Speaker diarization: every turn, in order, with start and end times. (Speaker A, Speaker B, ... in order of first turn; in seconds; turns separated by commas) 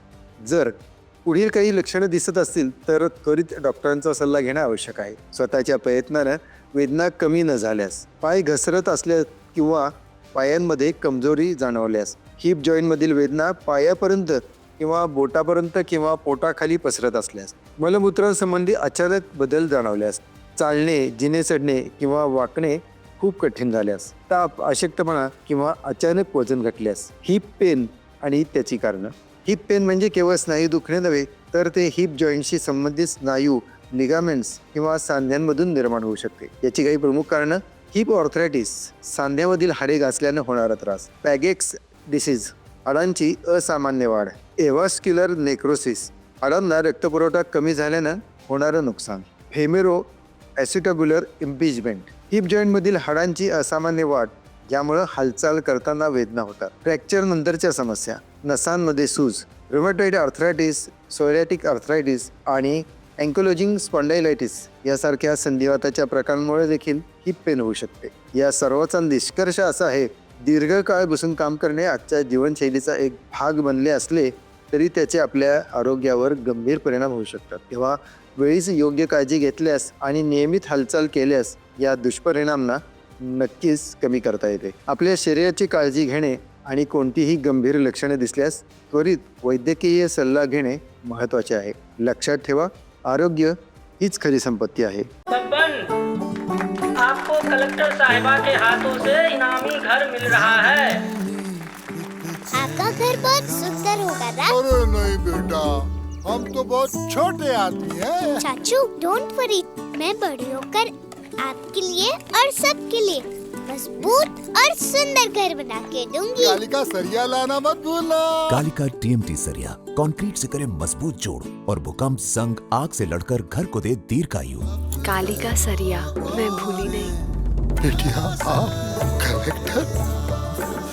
Speaker A: 0.4-95.1, Speaker B: 95.3-95.8, Speaker B: 97.0-101.0, Speaker C: 102.5-104.6, Speaker D: 104.5-108.4, Speaker C: 108.4-116.6, Speaker D: 116.4-118.5, Speaker E: 118.5-124.7, Speaker F: 125.0-127.2, Speaker D: 127.8-129.9